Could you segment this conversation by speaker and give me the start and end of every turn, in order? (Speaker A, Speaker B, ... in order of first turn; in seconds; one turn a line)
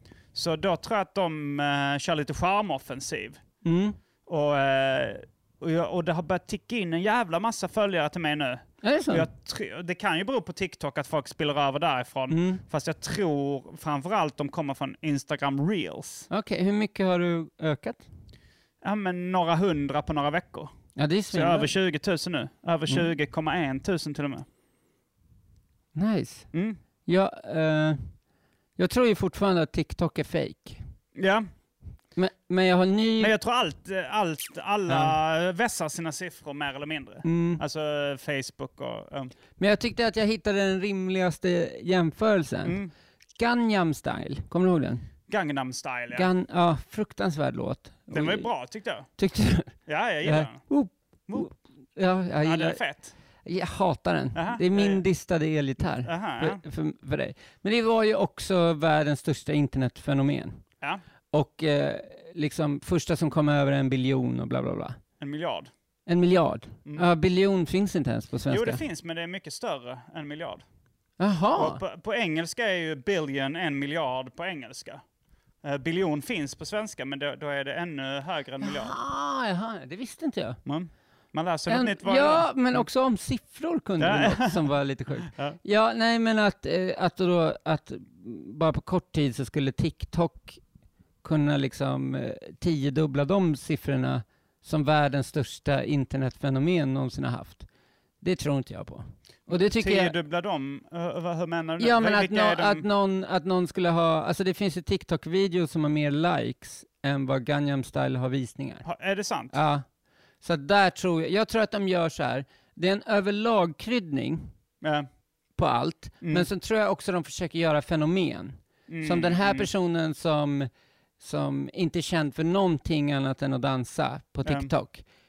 Speaker A: 0.3-3.4
Speaker B: 3.6-4.0
Speaker A: 4.3-16.3
Speaker B: 8.8-9.3
Speaker B: 12.3-12.6
Speaker B: 16.3-18.1
Speaker A: 18.8-20.7
Speaker B: 20.9-21.7
Speaker A: 21.3-24.4
Speaker B: 25.9-26.5
Speaker A: 26.5-26.8
Speaker B: 27.1-28.0
Speaker B: 28.8-30.8
Speaker A: 31.2-31.4
Speaker B: 32.2-33.3
Speaker A: 33.2-39.3
Speaker B: 34.9-35.1
Speaker B: 37.2-37.6
Speaker B: 39.6-42.8
Speaker A: 42.6-42.9
Speaker B: 43.4-45.1
Speaker A: 45.3-46.3
Speaker B: 46.1-48.5
Speaker A: 48.1-49.1
Speaker B: 49.2-52.8
Speaker A: 49.9-50.6
Speaker A: 52.4-53.1
Speaker B: 53.4-60.6
Speaker A: 54.3-55.0
Speaker A: 56.0-56.6
Speaker B: 61.3-65.0
Speaker A: 65.2-65.7
Speaker B: 66.1-68.8
Speaker A: 68.5-70.6
Speaker B: 71.2-71.8
Speaker A: 71.5-75.0
Speaker A: 75.6-79.0
Speaker B: 78.6-80.6
Speaker A: 80.7-82.8
Speaker B: 81.7-90.6
Speaker A: 84.0-84.7
Speaker A: 85.2-85.6
Speaker B: 91.2-97.7
Speaker B: 98.2-100.1
Speaker A: 99.5-102.8
Speaker B: 101.8-108.8
Speaker A: 108.8-109.5
Speaker B: 109.5-109.8
Speaker B: 110.4-114.5
Speaker A: 114.8-115.1
Speaker B: 115.6-125.0
Speaker A: 116.2-116.5
Speaker A: 118.9-119.7
Speaker A: 124.5-124.7